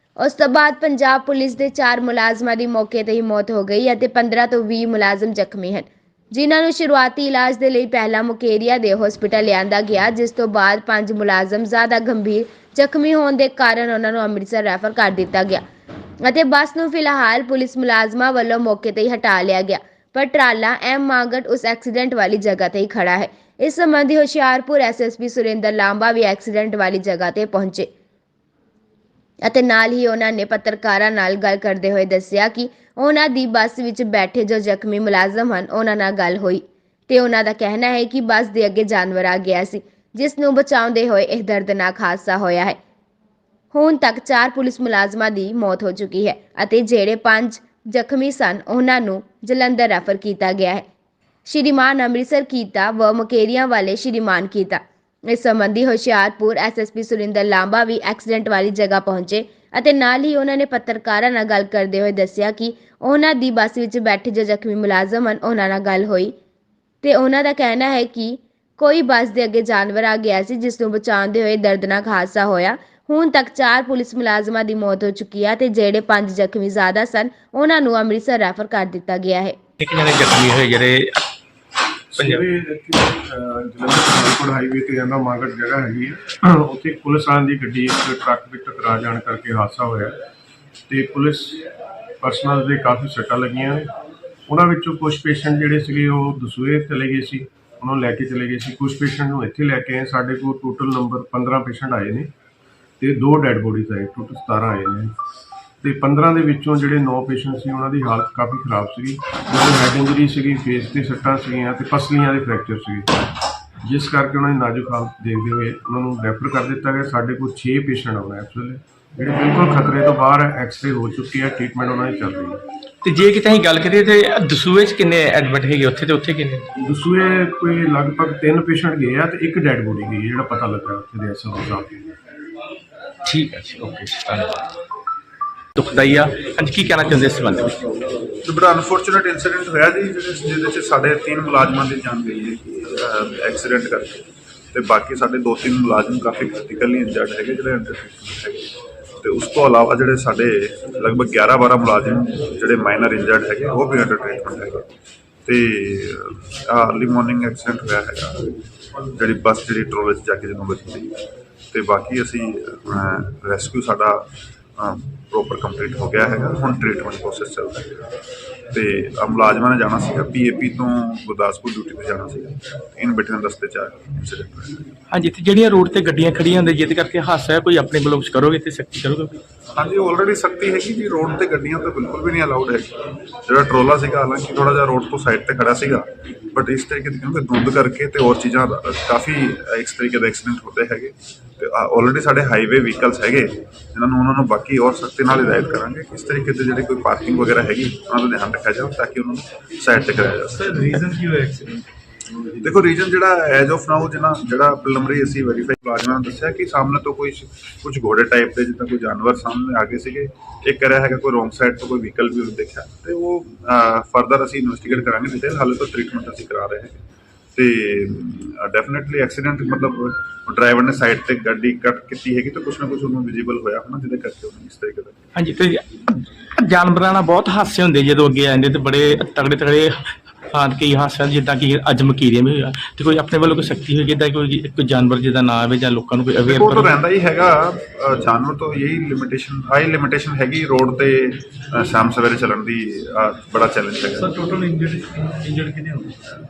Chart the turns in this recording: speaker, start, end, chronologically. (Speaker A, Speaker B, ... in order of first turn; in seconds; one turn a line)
Speaker A: 0.2-15.6
Speaker A: 16.2-27.9
Speaker A: 29.4-42.8
Speaker A: 43.7-50.9
Speaker A: 51.5-66.3
Speaker A: 67.0-79.6
Speaker B: 79.8-81.2
Speaker C: 82.1-90.2
Speaker B: 82.2-82.4
Speaker C: 90.9-91.6
Speaker C: 92.2-93.9
Speaker C: 94.5-102.3
Speaker C: 103.0-105.2
Speaker C: 105.8-113.1
Speaker C: 113.8-122.6
Speaker B: 123.0-126.7
Speaker C: 126.8-132.0
Speaker B: 133.3-134.6
Speaker B: 135.8-137.8
Speaker D: 138.4-154.9
Speaker D: 155.4-158.5
Speaker D: 159.2-161.1
Speaker D: 161.7-164.3
Speaker D: 164.8-168.0
Speaker D: 168.7-174.8
Speaker B: 175.1-179.4
Speaker D: 179.7-201.2
Speaker E: 201.0-201.8
Speaker D: 202.6-217.0
Speaker D: 217.6-225.2
Speaker B: 225.4-230.0
Speaker B: 230.5-237.0
Speaker D: 236.5-244.4
Speaker E: 244.3-246.2